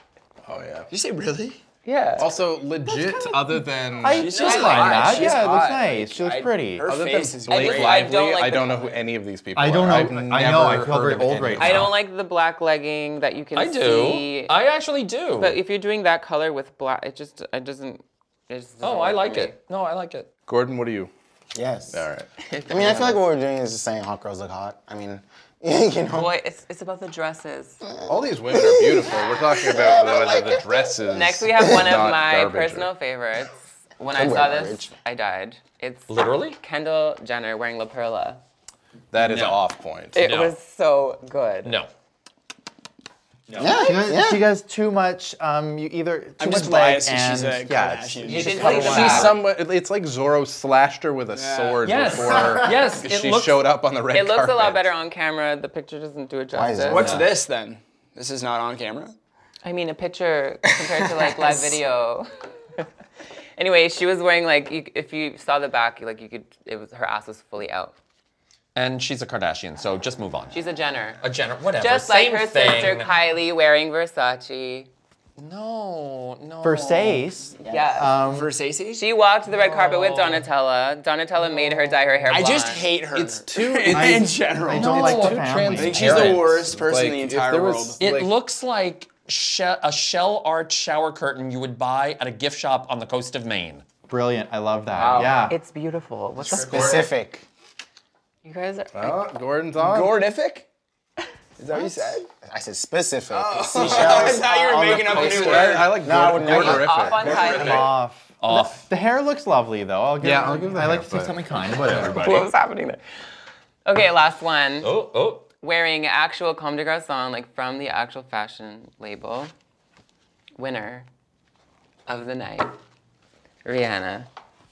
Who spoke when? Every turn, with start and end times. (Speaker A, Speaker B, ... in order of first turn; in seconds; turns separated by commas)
Speaker A: 0.5-0.9, Speaker B: 0.9-1.6, Speaker C: 1.9-2.3, Speaker A: 2.2-5.8, Speaker C: 2.9-3.4, Speaker D: 4.0-6.9, Speaker B: 4.0-8.6, Speaker C: 4.4-5.1, Speaker A: 6.9-11.9, Speaker C: 7.5-8.9, Speaker D: 9.6-11.9, Speaker C: 11.6-14.5, Speaker E: 13.6-15.6, Speaker C: 15.4-19.6, Speaker E: 18.8-20.3, Speaker A: 20.5-21.1, Speaker F: 21.5-22.0, Speaker A: 21.9-22.3, Speaker C: 22.4-23.2, Speaker F: 22.7-26.3, Speaker C: 26.1-27.8, Speaker A: 28.1-32.9, Speaker F: 28.5-30.6, Speaker C: 31.1-38.4, Speaker F: 34.1-34.9, Speaker E: 36.1-36.6, Speaker A: 39.1-40.2, Speaker E: 39.2-39.6, Speaker C: 40.1-41.8, Speaker E: 40.2-40.5, Speaker E: 41.6-41.9, Speaker E: 43.5-43.8, Speaker F: 43.6-44.5, Speaker D: 43.6-49.1, Speaker B: 46.4-49.3, Speaker C: 48.2-49.4, Speaker E: 48.3-49.3, Speaker A: 48.6-54.9, Speaker B: 51.3-52.9, Speaker E: 51.8-53.7, Speaker C: 54.1-57.1, Speaker F: 56.5-57.3, Speaker B: 56.9-59.1, Speaker E: 56.9-57.3, Speaker C: 59.6-62.9, Speaker B: 60.6-61.8, Speaker C: 63.6-67.9, Speaker E: 68.8-70.5, Speaker C: 70.5-71.2, Speaker E: 71.2-73.1, Speaker C: 71.8-74.9, Speaker E: 75.4-77.3, Speaker D: 76.6-78.5, Speaker C: 77.6-78.2, Speaker B: 78.2-79.1, Speaker C: 79.0-82.8, Speaker E: 79.7-80.2, Speaker B: 82.3-88.0, Speaker A: 83.1-88.3, Speaker D: 83.9-86.5, Speaker E: 84.7-85.1, Speaker E: 88.0-93.8, Speaker D: 94.1-95.6, Speaker B: 95.0-95.4, Speaker C: 95.5-97.1, Speaker A: 96.4-97.1, Speaker B: 96.5-97.0, Speaker F: 96.6-97.5, Speaker C: 98.4-99.3, Speaker A: 98.9-100.2, Speaker B: 99.8-100.7, Speaker B: 101.6-102.3, Speaker F: 101.7-107.5, Speaker B: 103.3-106.1, Speaker A: 105.0-107.9, Speaker C: 106.4-107.9, Speaker B: 107.3-107.8, Speaker D: 107.5-112.5, Speaker E: 108.4-108.9, Speaker A: 110.2-111.4, Speaker E: 111.7-112.4, Speaker C: 112.0-113.0, Speaker C: 113.8-115.0, Speaker E: 114.8-115.5, Speaker C: 115.6-119.5, Speaker C: 120.6-121.1, Speaker C: 122.1-122.8, Speaker C: 123.7-124.3